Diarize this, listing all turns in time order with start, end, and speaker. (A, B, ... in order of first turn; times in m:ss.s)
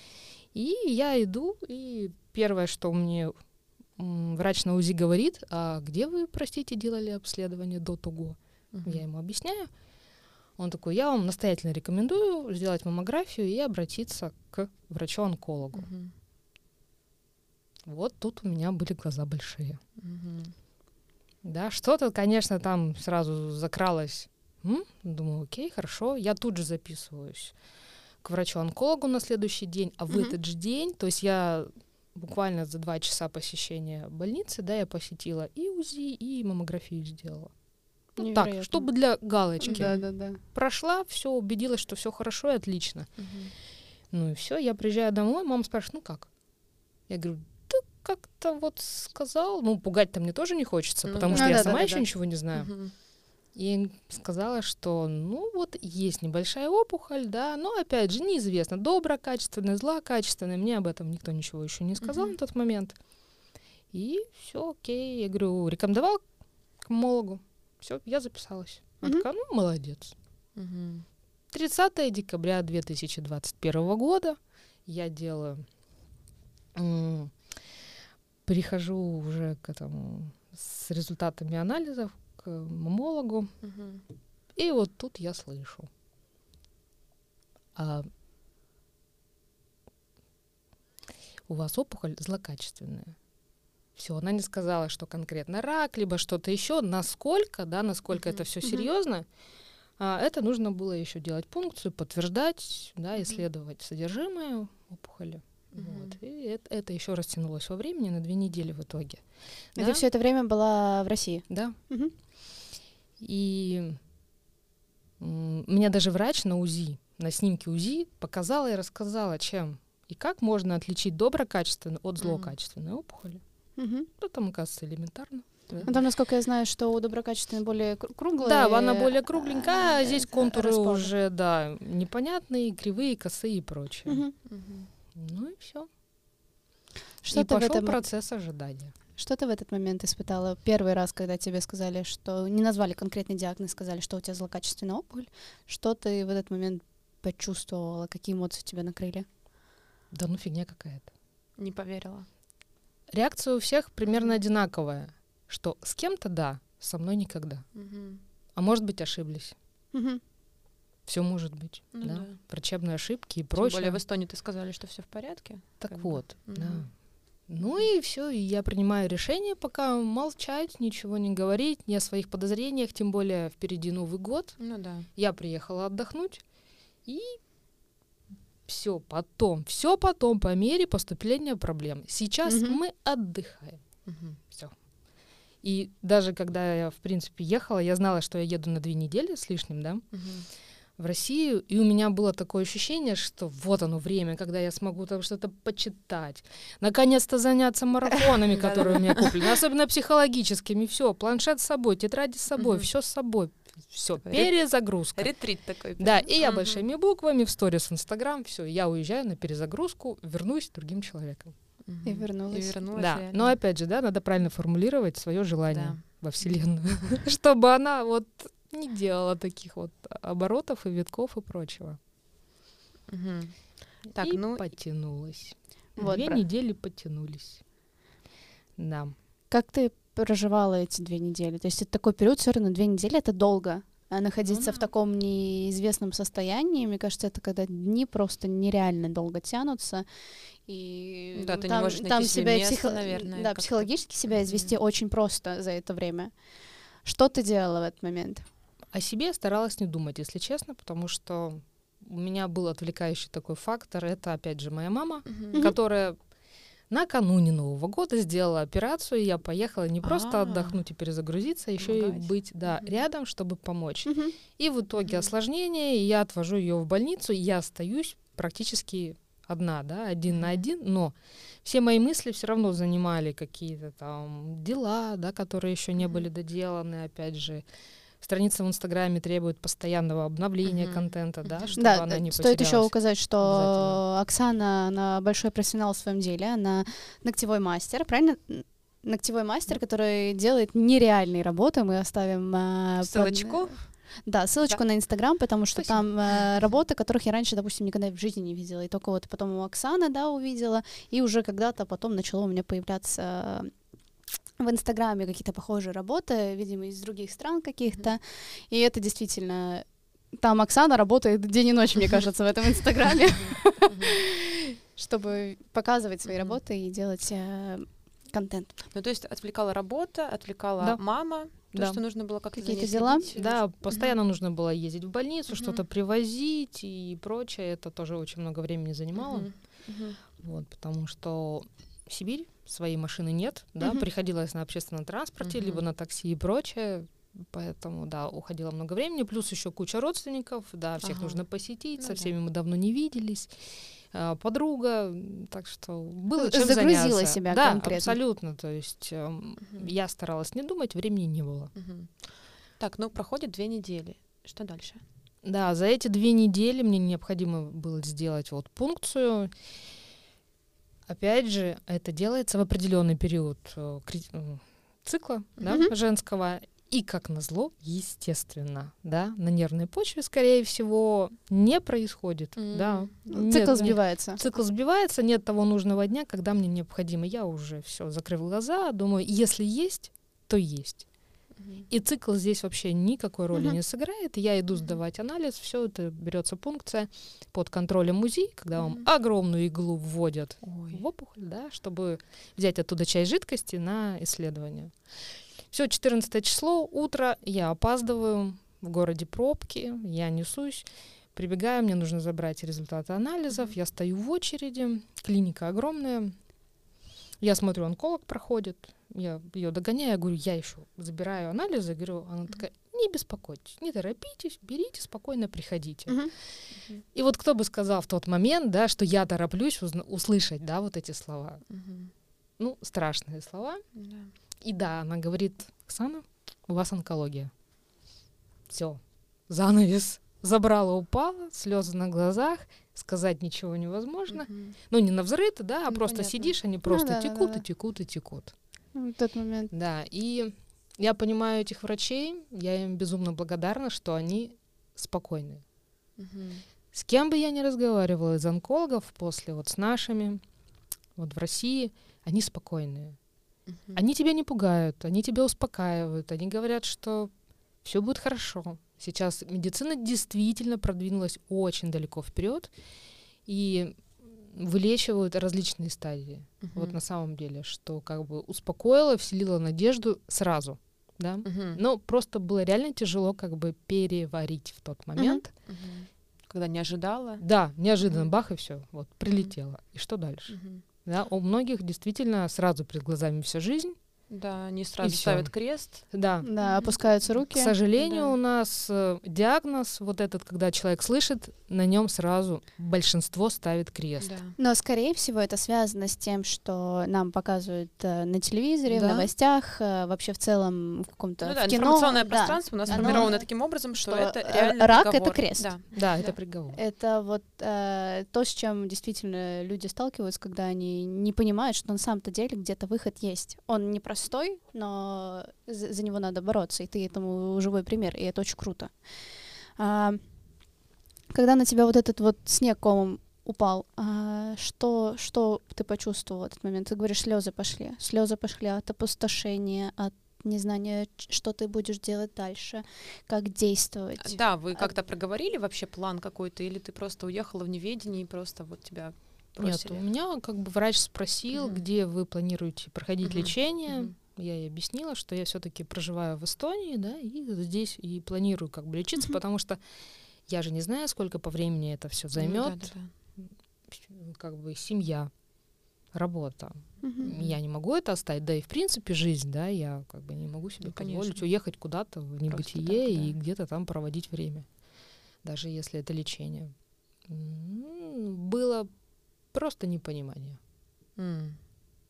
0:00.5-0:03.3 A
0:04.0-0:09.7 A
0:08.7-0:09.0 B
0:10.6-0:15.9 A
0:15.7-0:16.1 B
0:17.9-0:19.8 A
0:20.0-0:20.5 B
0:21.4-0:27.6 A
0:28.2-0:37.5 A
0:38.2-0:43.1 A
0:38.2-0:38.9 C
0:39.6-0:40.4 C
0:39.6-0:40.0 B
0:43.2-0:43.5 B
0:44.1-0:46.3 A
0:47.1-0:52.8 A
0:51.0-0:52.9 B
0:51.3-0:52.0 C
0:53.6-1:03.0 A
1:02.0-1:02.4 B
1:03.9-1:06.2 A
1:06.8-1:10.1 A
1:10.6-1:11.0 B
1:11.5-1:15.7 A
1:16.8-1:17.3 A
1:18.5-1:23.5 A
1:23.6-1:24.0 B
1:24.6-1:25.9 A
1:27.8-1:28.1 A
1:31.5-1:33.1 A
1:34.0-1:39.3 A
1:38.2-1:38.4 B
1:40.0-1:49.2 A
1:45.7-1:46.2 B
1:49.8-1:50.0 A
1:49.8-1:52.1 C
1:51.5-1:51.8 A
1:53.2-1:54.0 A
1:55.2-2:03.4 A
2:02.2-2:02.5 B
2:03.8-2:04.1 C
2:04.2-2:05.9 A
2:05.9-2:11.1 C
2:08.4-2:14.2 A
2:14.1-2:14.3 C
2:14.5-2:14.9 B
2:15.2-2:15.9 A
2:17.2-2:18.0 C
2:17.3-2:18.9 A
2:19.2-2:29.3 C
2:30.1-2:31.1 A
2:31.6-2:32.3 B
2:33.1-2:37.6 A
2:34.1-2:34.3 B
2:37.8-2:38.2 B
2:38.6-2:39.6 A
2:39.9-2:40.2 C
2:41.1-2:44.0 A
2:41.9-2:42.4 B
2:43.5-2:46.9 B
2:45.8-2:46.9 A
2:47.5-2:54.6 A
2:54.6-2:55.1 B
2:55.2-2:56.4 A
2:57.1-2:57.4 A
2:58.7-3:03.8 A
3:02.5-3:02.8 C
3:04.1-3:04.4 B
3:05.6-3:10.0 A
3:10.1-3:10.5 B
3:11.0-3:25.4 A
3:18.5-3:19.3 B
3:22.6-3:22.9 B
3:24.2-3:24.5 B
3:25.1-3:26.8 B
3:26.0-3:31.5 A
3:31.9-3:33.6 B
3:32.0-3:32.8 C
3:33.0-3:42.0 A
3:35.7-3:36.0 B
3:43.1-3:44.7 B
3:44.2-3:47.6 A
3:46.0-3:46.4 C
3:48.8-3:49.1 A
3:49.5-4:00.0 C
3:54.5-3:54.9 A
4:00.7-4:06.4 C
4:01.4-4:04.7 B
4:07.0-4:08.4 C
4:08.9-4:16.2 A
4:15.3-4:15.6 B
4:16.9-4:37.6 A
4:20.0-4:20.8 B
4:21.8-4:22.9 B
4:24.1-4:24.4 C
4:25.0-4:25.3 B
4:36.0-4:36.2 B
4:38.2-4:44.0 A
4:40.6-4:41.8 B
4:41.8-5:03.7 C
4:53.0-4:53.9 B
4:55.8-4:56.6 B
5:04.6-5:18.8 C
5:13.4-5:14.2 B
5:16.3-5:16.6 B
5:18.9-5:24.1 B
5:21.7-5:22.0 A
5:22.6-5:23.3 C
5:23.4-5:29.5 A
5:25.5-5:25.8 B
5:29.2-5:30.2 B
5:30.4-5:43.5 A
5:35.4-5:35.8 B
5:41.0-5:41.4 B
5:42.0-5:42.3 B
5:44.1-5:51.7 A
5:46.4-5:48.2 C
5:49.6-5:49.9 B
5:51.8-5:55.0 B
5:55.4-5:59.5 A
6:01.1-6:21.0 A
6:05.6-6:05.9 C
6:12.6-6:13.1 B
6:13.3-6:14.4 C
6:21.6-6:21.9 B
6:21.9-6:35.0 A
6:28.7-6:29.1 B
6:30.6-6:31.0 B
6:35.7-6:46.3 A
6:47.4-6:56.2 A
6:56.8-6:57.0 B
6:57.1-7:01.6 A
7:01.7-7:02.1 B
7:02.6-7:03.8 A
7:04.0-7:04.3 B
7:04.6-7:07.5 A
7:08.7-7:18.5 A
7:14.3-7:14.8 B
7:15.9-7:16.6 B
7:16.9-7:17.6 C
7:19.0-7:19.7 C
7:19.7-7:25.6 A
7:26.2-7:26.6 B
7:26.9-7:30.4 A
7:31.2-7:33.2 A
7:33.7-7:34.0 B
7:33.9-7:37.3 A
7:37.8-7:42.7 A
7:43.5-7:55.5 A
7:46.6-7:47.0 B
7:51.4-7:51.8 B
7:55.2-7:55.4 C
7:55.7-7:57.4 B
7:57.4-8:04.0 A
8:00.5-8:00.8 B
8:04.3-8:07.3 B
8:05.0-8:06.5 A
8:06.4-8:07.8 C
8:07.5-8:14.4 A
8:08.0-8:08.3 B
8:14.2-8:14.6 B
8:14.6-8:25.8 C
8:18.9-8:19.3 A
8:21.4-8:26.3 B
8:22.9-8:23.4 A
8:25.9-8:26.8 A
8:26.7-8:38.9 C
8:39.8-8:40.2 C
8:41.3-8:54.9 C
8:54.2-9:00.0 B
8:59.6-9:09.8 A
9:01.5-9:01.8 B
9:03.2-9:04.1 B
9:10.5-9:15.3 A
9:12.4-9:13.1 B
9:16.1-9:24.7 A
9:17.0-9:17.3 C
9:17.2-9:17.6 B
9:20.8-9:21.4 B
9:22.5-9:23.4 B
9:25.4-9:26.7 A
9:27.3-9:28.9 A
9:29.5-9:30.6 A
9:31.2-9:31.6 B